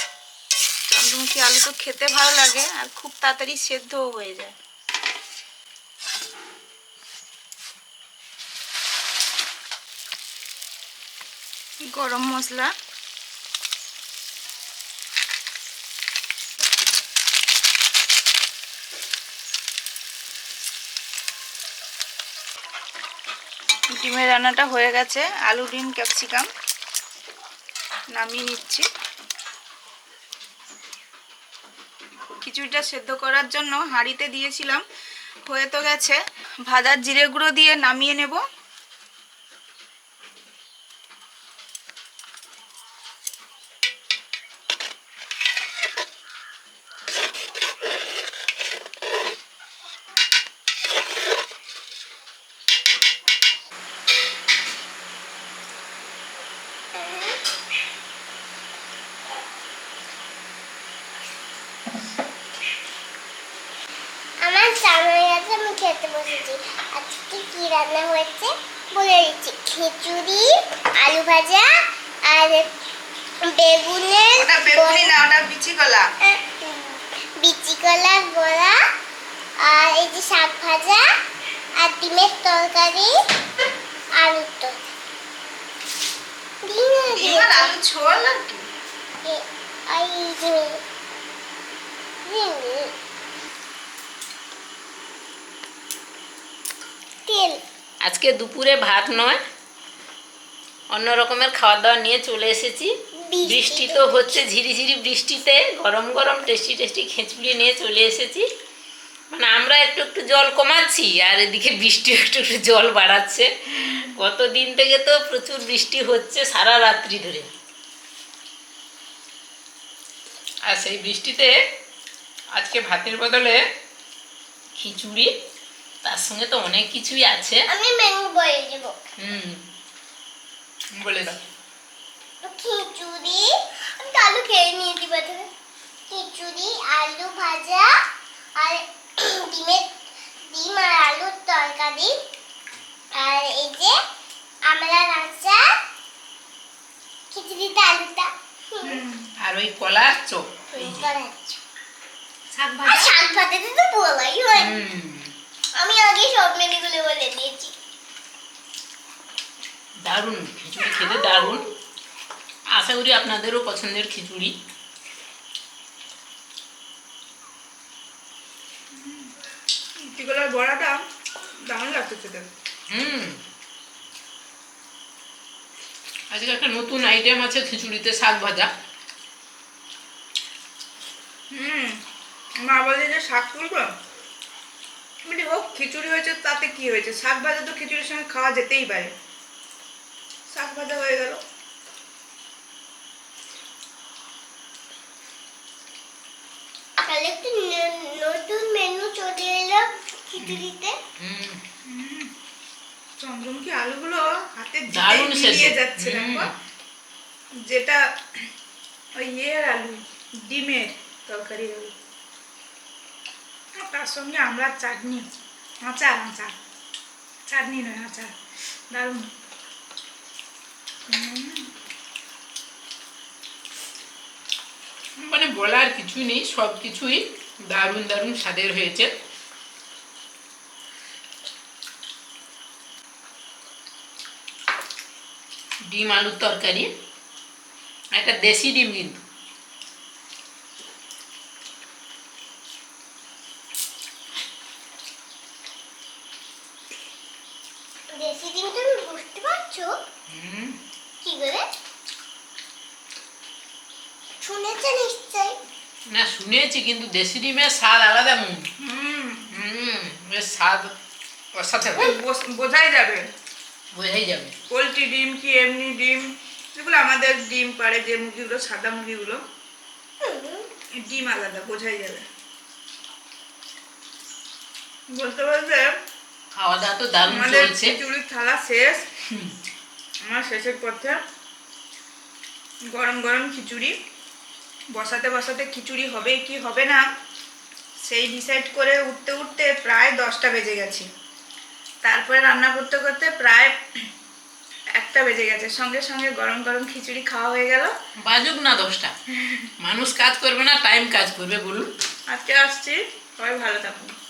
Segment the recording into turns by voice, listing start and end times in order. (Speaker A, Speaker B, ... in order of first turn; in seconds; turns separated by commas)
Speaker A: 0.9-4.5, Speaker A: 11.9-12.7, Speaker A: 24.0-26.5, Speaker A: 28.1-28.9, Speaker A: 32.4-34.8, Speaker A: 35.5-38.4, Speaker B: 56.9-57.4, Speaker B: 64.4-71.7, Speaker B: 72.2-72.7, Speaker B: 73.4-75.1, Speaker A: 74.3-76.1, Speaker B: 76.2-78.8, Speaker B: 79.6-81.0, Speaker B: 81.8-83.1, Speaker B: 84.2-84.8, Speaker B: 86.6-87.7, Speaker A: 87.1-88.7, Speaker B: 89.2-90.8, Speaker B: 92.2-92.9, Speaker B: 97.3-97.6, Speaker C: 98.0-99.4, Speaker C: 100.9-102.9, Speaker B: 103.2-104.4, Speaker C: 103.4-108.4, Speaker C: 109.3-117.5, Speaker C: 120.7-121.5, Speaker C: 122.5-123.6, Speaker C: 124.8-125.3, Speaker C: 126.0-127.6, Speaker B: 127.7-129.0, Speaker C: 129.2-129.6, Speaker C: 130.9-131.4, Speaker B: 132.4-135.5, Speaker B: 136.1-137.9, Speaker B: 138.6-140.0, Speaker B: 140.5-142.1, Speaker B: 143.1-144.0, Speaker B: 144.6-145.6, Speaker B: 147.3-149.0, Speaker A: 148.8-149.3, Speaker C: 149.4-151.1, Speaker B: 150.7-151.3, Speaker A: 152.5-153.1, Speaker B: 152.8-154.8, Speaker C: 154.5-155.3, Speaker B: 155.7-157.7, Speaker C: 160.0-161.7, Speaker B: 160.8-161.7, Speaker C: 162.7-164.5, Speaker A: 168.9-169.3, Speaker A: 170.0-171.0, Speaker A: 171.7-172.5, Speaker C: 172.9-173.4, Speaker C: 176.3-178.7, Speaker A: 181.5-182.0, Speaker A: 182.6-183.9, Speaker A: 185.2-189.1, Speaker A: 190.5-191.4, Speaker B: 197.0-201.0, Speaker C: 201.2-201.6, Speaker A: 201.8-202.3, Speaker A: 203.2-206.5, Speaker C: 204.9-206.5, Speaker A: 207.7-208.0, Speaker A: 209.2-211.9, Speaker A: 213.8-215.3, Speaker A: 215.8-216.5, Speaker A: 217.5-218.3, Speaker A: 218.9-219.3, Speaker A: 221.1-221.6, Speaker C: 225.2-229.1, Speaker C: 235.9-236.9, Speaker C: 238.1-239.2, Speaker B: 248.1-249.9, Speaker C: 250.3-250.8, Speaker B: 251.2-251.6, Speaker B: 254.4-255.5, Speaker C: 256.1-258.6, Speaker A: 258.8-259.5, Speaker C: 259.5-260.9, Speaker C: 261.6-262.1, Speaker A: 261.9-263.2, Speaker C: 263.9-264.5, Speaker A: 264.7-269.4, Speaker B: 270.2-270.7, Speaker A: 271.0-272.2, Speaker A: 275.1-275.9, Speaker C: 276.5-277.9, Speaker A: 277.2-279.0, Speaker A: 280.2-281.2, Speaker A: 282.9-283.9, Speaker A: 284.9-287.1, Speaker A: 288.0-291.1, Speaker A: 292.0-293.7, Speaker A: 295.0-297.9, Speaker C: 298.2-299.1, Speaker C: 299.8-301.9, Speaker A: 302.3-304.1